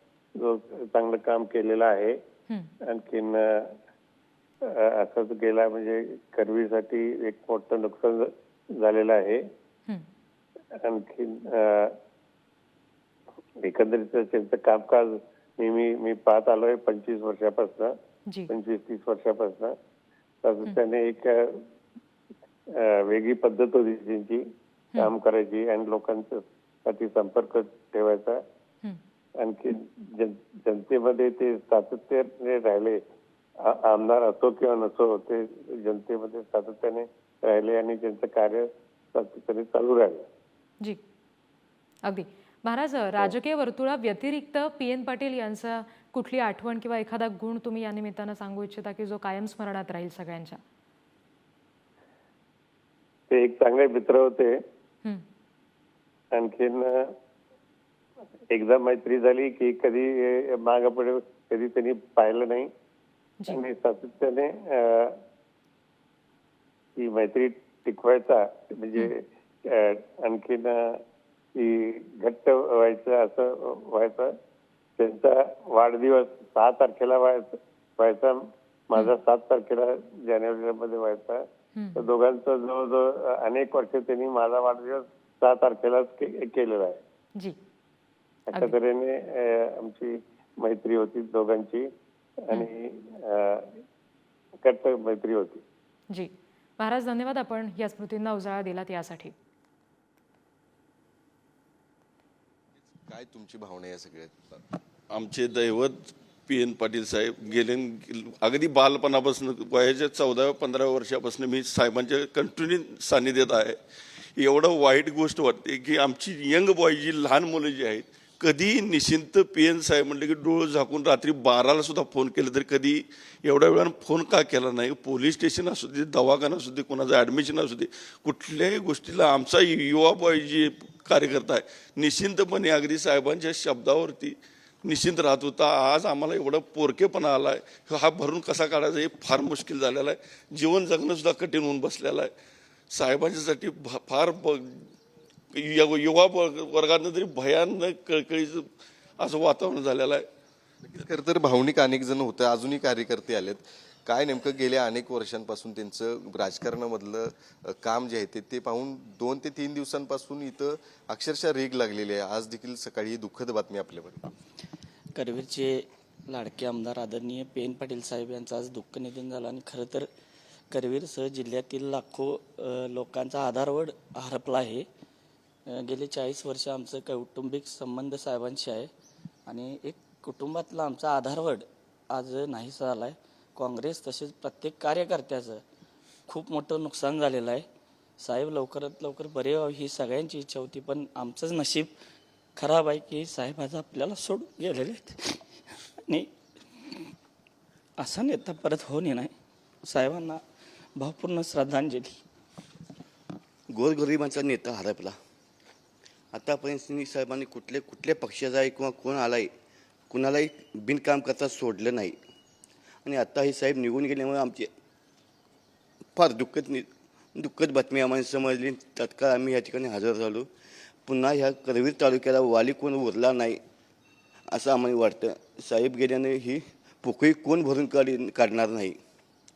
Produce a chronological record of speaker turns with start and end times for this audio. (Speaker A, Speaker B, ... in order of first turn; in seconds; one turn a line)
Speaker A: 0.4-2.2
Speaker A: 2.9-3.8
Speaker A: 4.6-9.5
Speaker A: 10.7-12.0
Speaker A: 13.6-18.0
Speaker A: 18.5-19.8
Speaker A: 20.4-21.6
Speaker A: 22.7-28.4
Speaker A: 29.4-33.0
Speaker A: 33.6-40.3
Speaker B: 42.0-50.6
Speaker A: 53.3-54.6
Speaker A: 56.3-57.2
Speaker A: 58.5-62.7
Speaker A: 63.5-65.2
Speaker A: 67.0-71.0
Speaker A: 71.5-74.4
Speaker A: 75.0-87.0
Speaker B: 81.8-82.0
Speaker A: 88.5-93.8
Speaker A: 94.6-95.7
Speaker B: 96.1-99.3
Speaker C: 102.9-104.6
Speaker D: 105.1-113.8
Speaker D: 114.4-142.3
Speaker D: 142.9-144.9
Speaker D: 145.5-148.7
Speaker D: 149.2-150.3
Speaker C: 150.8-164.3
Speaker E: 165.1-170.1
Speaker E: 170.7-174.9
Speaker E: 175.7-178.9
Speaker E: 179.5-185.6
Speaker E: 186.3-187.7
Speaker E: 188.2-191.9
Speaker E: 192.6-195.4
Speaker E: 198.0-199.3
Speaker E: 199.8-200.4
Speaker E: 201.0-202.2
Speaker F: 203.7-205.2
Speaker F: 206.3-209.5
Speaker F: 210.1-212.2
Speaker F: 213.0-214.7
Speaker F: 216.2-220.5
Speaker F: 221.1-223.6
Speaker F: 224.5-229.0